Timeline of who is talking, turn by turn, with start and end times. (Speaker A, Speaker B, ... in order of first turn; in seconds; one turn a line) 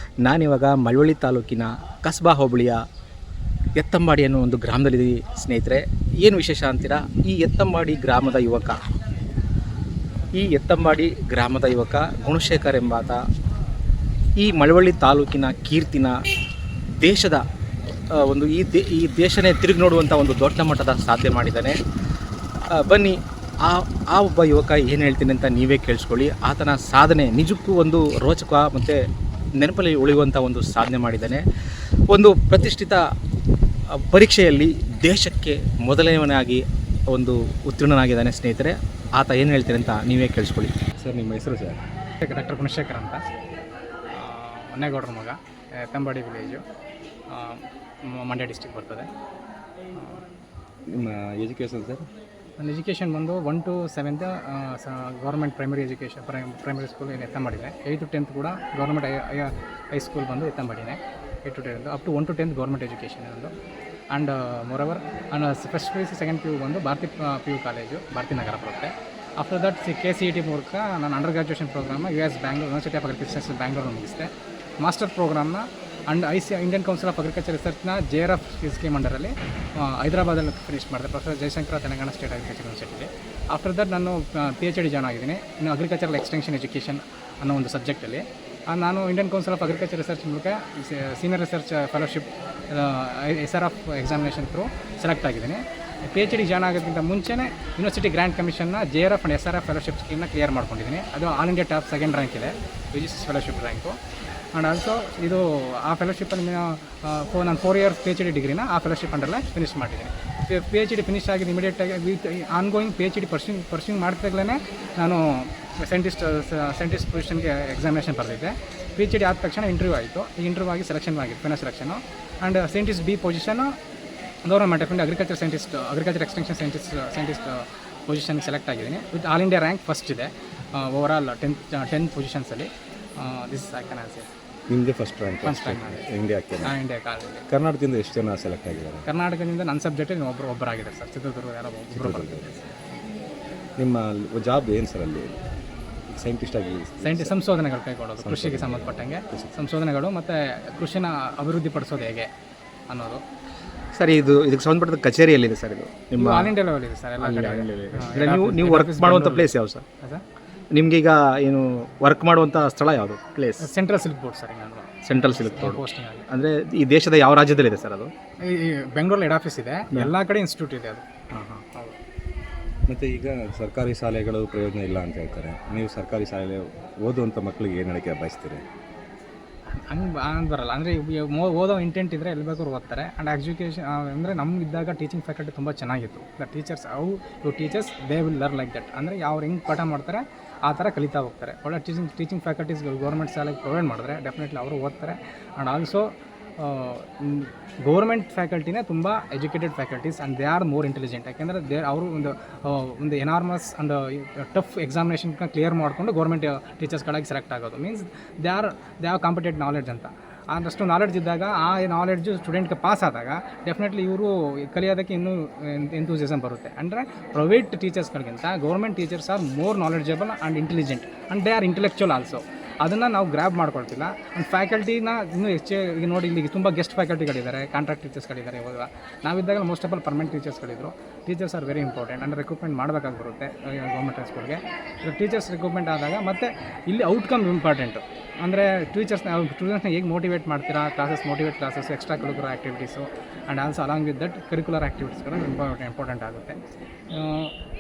Speaker A: 0.2-2.8
Speaker A: 3.8-8.8
Speaker A: 10.3-13.2
Speaker A: 14.4-16.2
Speaker A: 17.0-17.4
Speaker A: 18.2-21.8
Speaker A: 22.7-29.0
Speaker A: 29.6-31.4
Speaker A: 32.1-33.0
Speaker A: 33.9-40.8
Speaker B: 41.0-41.8
Speaker C: 42.2-43.2
Speaker C: 44.1-46.6
Speaker C: 47.3-49.1
Speaker C: 50.0-50.2
Speaker B: 50.9-52.0
Speaker C: 52.6-63.5
Speaker C: 64.1-74.3
Speaker C: 74.8-104.0
Speaker C: 104.5-123.8
Speaker C: 124.5-134.3
Speaker B: 134.7-136.8
Speaker C: 135.4-136.1
Speaker C: 136.6-137.5
Speaker B: 137.5-139.1
Speaker C: 139.1-142.7
Speaker B: 141.9-142.7
Speaker B: 143.8-145.4
Speaker B: 146.1-147.3
Speaker C: 147.0-152.3
Speaker B: 148.2-149.6
Speaker C: 152.9-153.2
Speaker A: 153.9-156.5
Speaker C: 156.2-160.2
Speaker A: 157.2-159.8
Speaker A: 160.7-163.7
Speaker C: 163.6-166.3
Speaker A: 165.1-168.1
Speaker C: 168.4-171.1
Speaker A: 171.3-171.6
Speaker B: 172.9-178.7
Speaker C: 179.7-246.6
Speaker C: 247.1-247.5